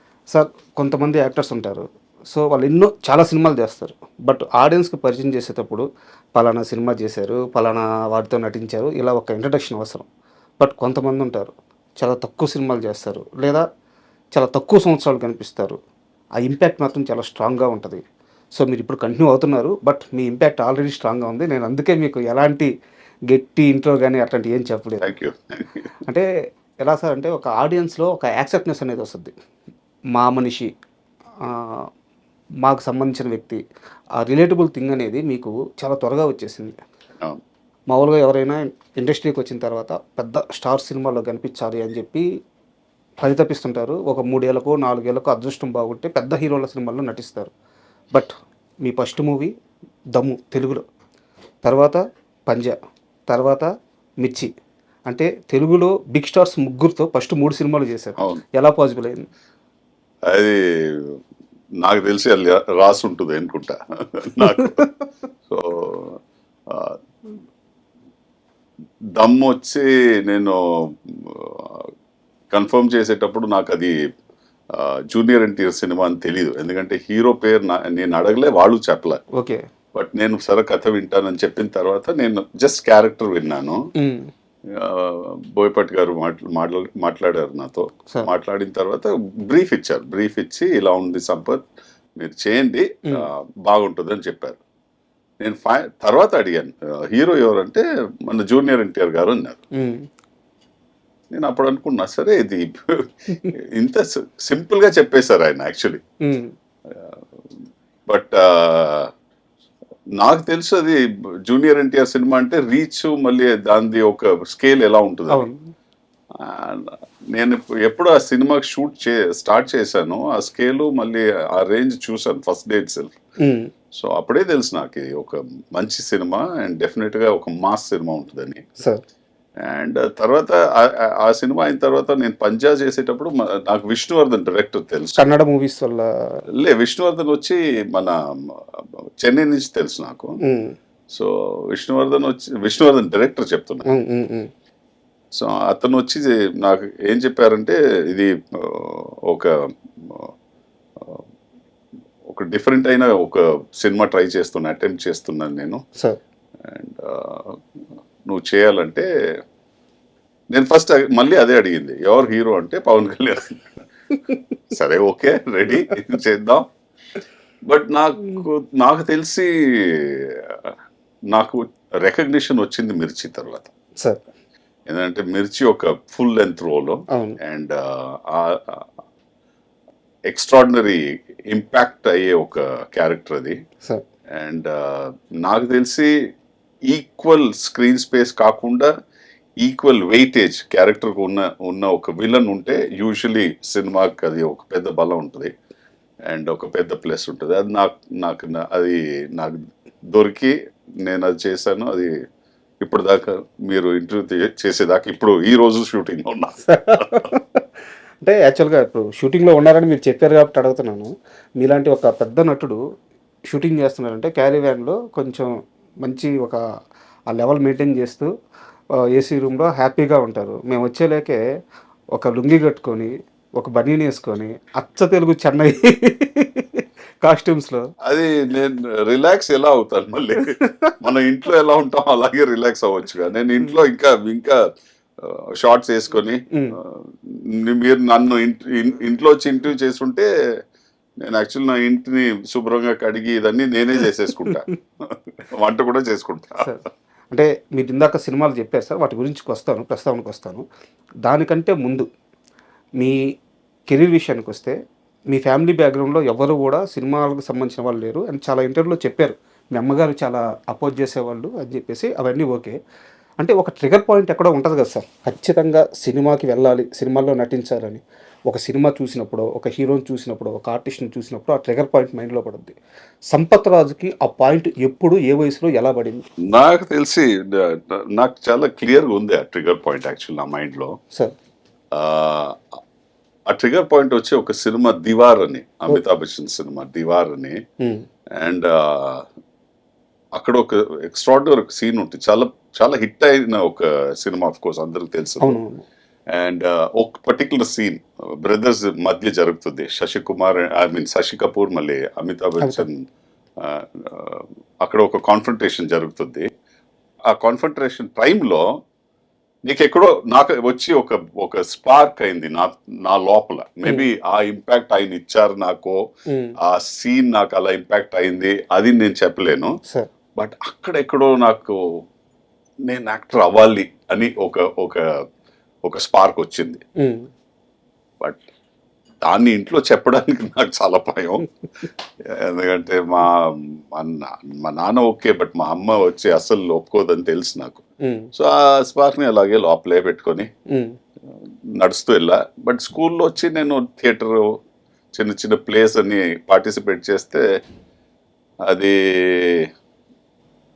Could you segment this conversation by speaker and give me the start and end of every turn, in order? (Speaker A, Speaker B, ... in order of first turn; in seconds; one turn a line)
Speaker A: 0.3-5.8
Speaker A: 6.3-10.1
Speaker A: 10.6-13.6
Speaker A: 14.3-15.8
Speaker A: 16.4-18.0
Speaker A: 18.6-22.7
Speaker A: 23.3-25.1
Speaker B: 25.0-25.9
Speaker A: 26.8-29.3
Speaker A: 30.1-30.7
Speaker A: 31.4-31.9
Speaker A: 32.6-33.6
Speaker A: 34.2-36.8
Speaker A: 37.9-42.2
Speaker A: 43.2-47.5
Speaker A: 48.8-49.5
Speaker A: 50.1-50.8
Speaker A: 51.6-52.8
Speaker A: 53.3-53.7
Speaker A: 54.2-54.5
Speaker A: 55.1-59.3
Speaker B: 58.2-58.4
Speaker B: 60.3-61.2
Speaker B: 61.8-64.9
Speaker B: 65.5-66.2
Speaker B: 66.7-67.0
Speaker B: 69.2-71.9
Speaker B: 72.5-74.0
Speaker B: 74.7-79.2
Speaker A: 79.3-79.7
Speaker B: 79.9-83.8
Speaker A: 84.0-84.3
Speaker B: 84.7-91.6
Speaker B: 92.2-94.6
Speaker B: 95.4-99.6
Speaker A: 99.8-100.0
Speaker B: 101.3-106.0
Speaker A: 106.2-106.5
Speaker B: 106.9-107.2
Speaker B: 108.1-109.1
Speaker B: 110.2-115.5
Speaker A: 115.3-115.6
Speaker B: 116.3-123.1
Speaker A: 123.4-123.7
Speaker B: 123.9-128.6
Speaker B: 129.6-135.2
Speaker A: 135.2-136.4
Speaker B: 136.6-140.3
Speaker A: 140.4-140.8
Speaker B: 141.1-143.8
Speaker A: 143.8-144.5
Speaker B: 145.3-149.5
Speaker B: 150.0-150.3
Speaker B: 152.3-155.8
Speaker B: 156.6-157.6
Speaker B: 158.3-159.1
Speaker B: 160.5-163.7
Speaker B: 164.7-166.7
Speaker B: 167.7-170.7
Speaker B: 171.3-173.7
Speaker B: 174.9-178.8
Speaker A: 177.1-177.4
Speaker B: 180.3-183.6
Speaker B: 184.3-186.1
Speaker B: 186.8-188.9
Speaker B: 189.6-195.5
Speaker B: 196.3-199.6
Speaker B: 200.1-202.1
Speaker B: 202.8-207.3
Speaker A: 206.7-207.6
Speaker A: 208.2-212.8
Speaker A: 213.5-215.5
Speaker A: 216.0-216.6
Speaker A: 217.3-218.3
Speaker A: 219.1-221.4
Speaker A: 222.2-227.8
Speaker B: 228.1-234.7
Speaker B: 235.2-240.3
Speaker B: 241.2-246.7
Speaker A: 246.6-250.6
Speaker A: 251.2-252.1
Speaker A: 253.9-254.7
Speaker A: 255.3-262.8
Speaker A: 263.4-272.8
Speaker A: 273.3-276.2
Speaker B: 276.4-280.9
Speaker B: 281.9-282.6
Speaker B: 283.5-287.6
Speaker A: 287.8-288.1
Speaker B: 288.4-289.2
Speaker B: 290.4-295.6
Speaker A: 295.4-295.8
Speaker B: 296.3-303.0
Speaker A: 302.6-302.9
Speaker B: 303.6-306.5
Speaker B: 307.3-308.8
Speaker B: 309.6-316.0
Speaker A: 316.3-316.6
Speaker B: 316.6-319.8
Speaker B: 320.4-322.0
Speaker B: 322.9-325.0
Speaker B: 325.9-326.8
Speaker A: 327.0-327.3
Speaker B: 329.2-331.5
Speaker B: 332.2-337.8
Speaker A: 338.0-338.3
Speaker B: 338.3-340.5
Speaker A: 340.7-340.9
Speaker B: 341.8-344.6
Speaker B: 345.2-347.4
Speaker B: 348.7-349.7